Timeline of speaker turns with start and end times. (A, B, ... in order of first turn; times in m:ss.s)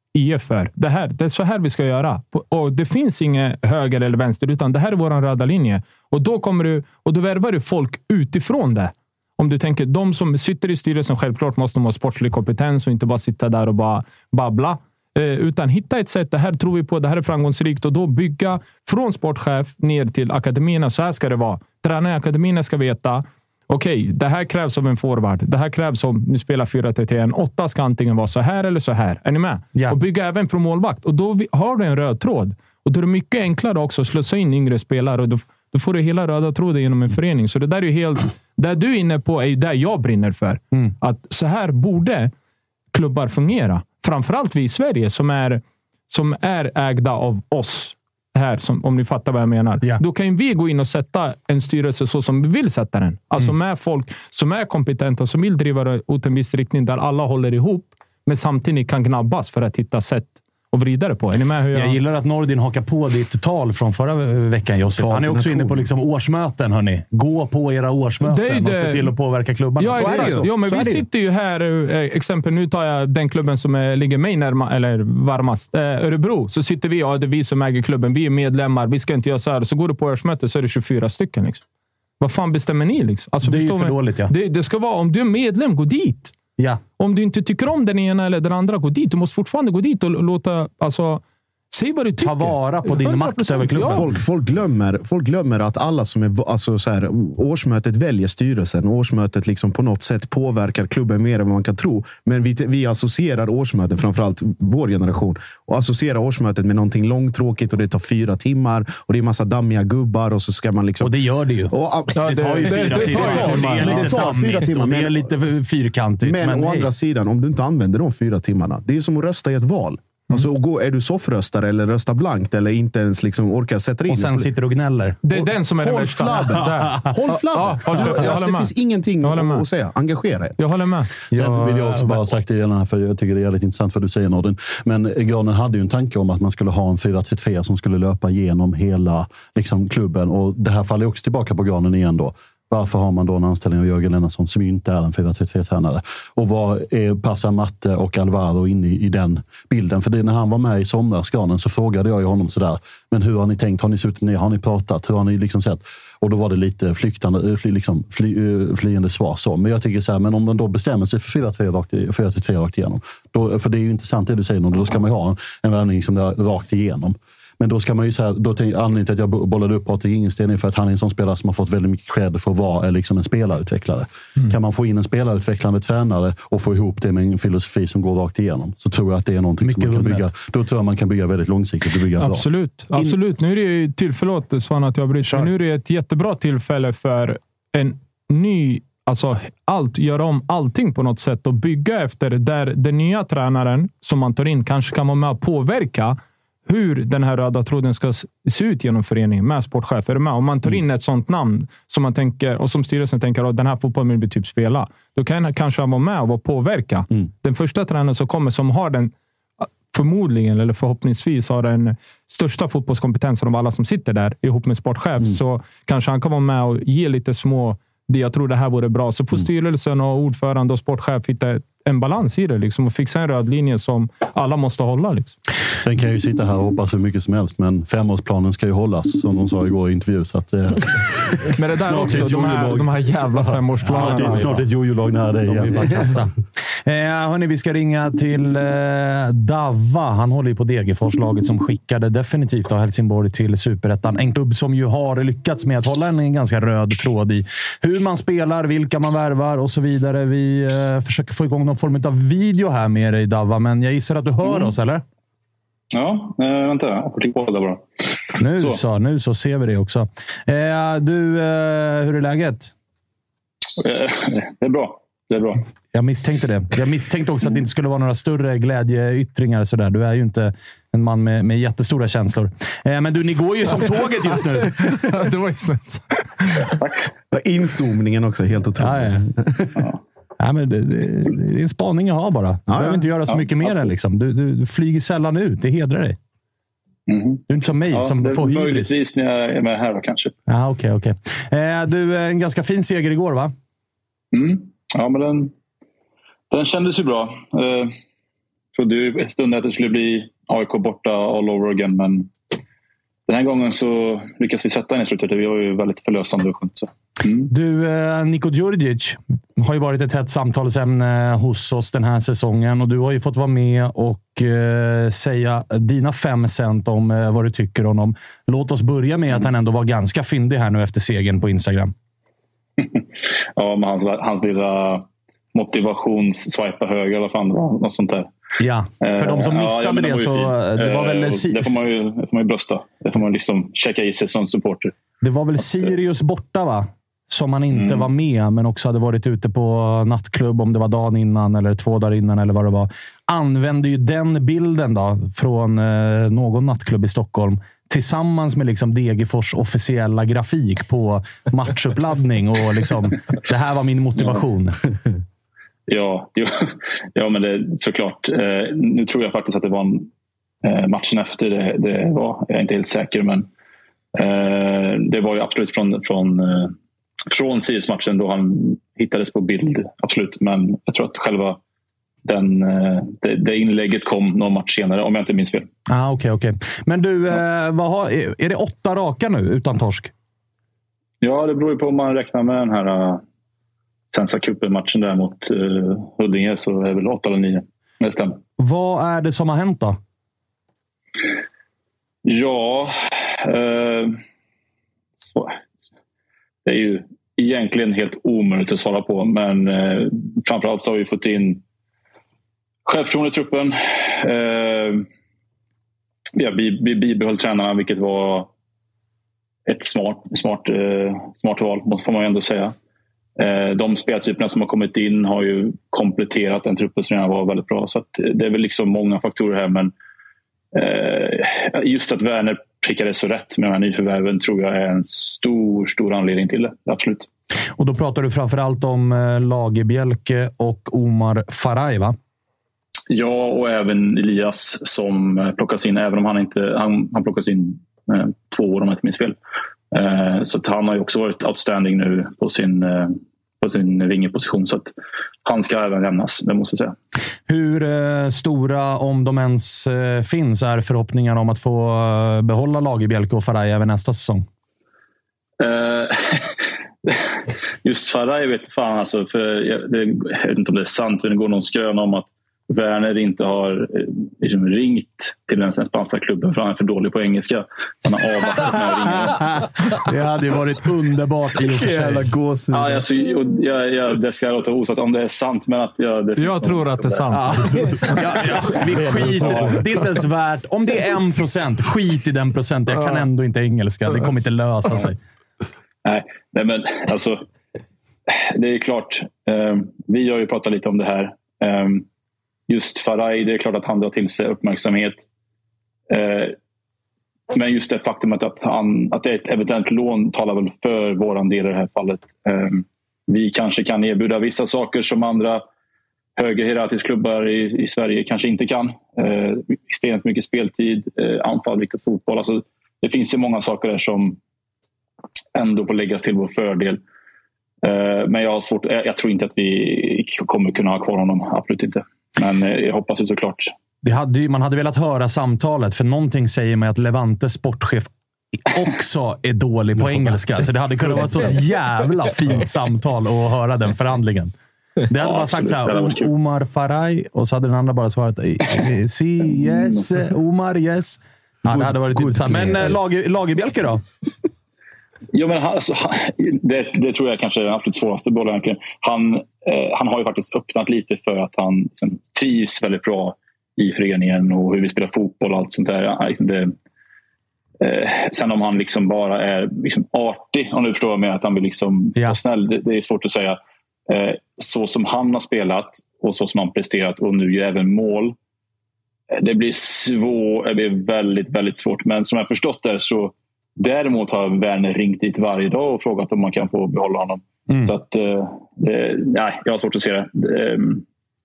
0:00.1-0:42.3 A
0:42.9-1:02.0 A
1:01.7-1:10.7 B
1:05.0-1:05.8 C
1:08.2-1:09.2 A
1:09.8-1:21.6 A
1:09.9-1:11.0 C
1:22.2-1:26.3 A
1:23.4-1:24.3 B
1:27.0-1:34.1 A
1:32.2-1:34.1 B
1:33.8-1:55.3 C
1:51.0-1:56.9 B
1:52.2-1:54.2 A
1:56.2-2:04.5 C
2:04.1-2:05.5 B
2:05.2-2:09.7 A
2:05.8-2:10.6 C
2:10.6-2:11.1 A
2:11.3-2:12.2 B
2:11.3-3:02.5 D
2:59.6-3:00.3 B
3:02.2-3:45.4 A
3:45.8-3:56.2 D
3:51.6-3:54.6 A
3:53.9-3:54.6 B
3:55.5-3:56.3 B
3:56.9-4:15.0 B
4:14.4-4:14.7 E
4:15.9-4:18.8 E
4:18.4-4:22.7 B
4:23.8-4:25.6 E
4:25.9-4:34.9 B
4:34.8-4:36.7 A
4:36.8-4:37.1 E
4:37.3-4:39.8 C
4:38.8-4:39.2 B
4:40.4-4:46.2 B
4:42.7-4:43.1 C
4:43.3-4:43.9 E
4:47.1-4:50.3 E
4:47.5-4:48.9 B
4:50.5-4:53.5 B
4:54.3-4:55.5 E
4:56.5-4:58.0 E
4:58.8-5:02.3 E
5:03.3-5:07.5 E
5:07.5-5:21.9 B
5:22.8-5:28.3 E
5:28.6-5:31.8 B
5:29.0-5:34.9 E
5:35.2-5:54.8 B
5:37.7-5:38.1 E
5:55.9-6:00.1 E
6:00.6-6:03.5 E
6:04.1-6:06.8 E
6:07.3-6:11.6 E
6:12.2-6:15.7 E
6:15.9-6:20.1 B
6:21.2-6:23.2 E
6:24.1-6:28.4 E
6:28.6-6:30.0 B
6:32.2-6:34.2 E
6:35.2-6:35.6 E
6:36.6-6:41.6 E
6:42.8-6:45.1 E
6:46.4-6:48.5 E
6:49.7-6:52.8 E
6:53.4-6:59.9 E
7:00.7-7:07.3 E
7:07.8-7:12.2 B
7:13.1-7:19.4 E
7:19.9-7:24.9 E
7:25.4-7:27.0 E
7:27.5-7:34.4 B
7:35.6-7:49.4 E
7:49.2-7:52.2 B
7:51.7-7:53.1 C
7:52.7-7:57.3 E
7:56.4-7:58.2 A
7:58.1-8:05.2 B
8:06.0-8:07.5 E
8:08.3-8:12.1 E
8:12.7-8:15.3 E
8:16.1-8:16.6 E
8:17.5-8:25.6 E
8:26.4-8:34.4 E
8:35.6-8:37.0 E
8:37.8-8:43.7 E
8:44.0-8:48.1 B
8:48.7-8:54.5 B
8:55.1-9:04.0 B
8:55.1-8:56.3 E
8:59.6-9:00.0 E
9:01.7-9:03.0 C
9:05.3-9:16.8 E
9:17.8-9:28.4 E
9:29.3-9:41.0 E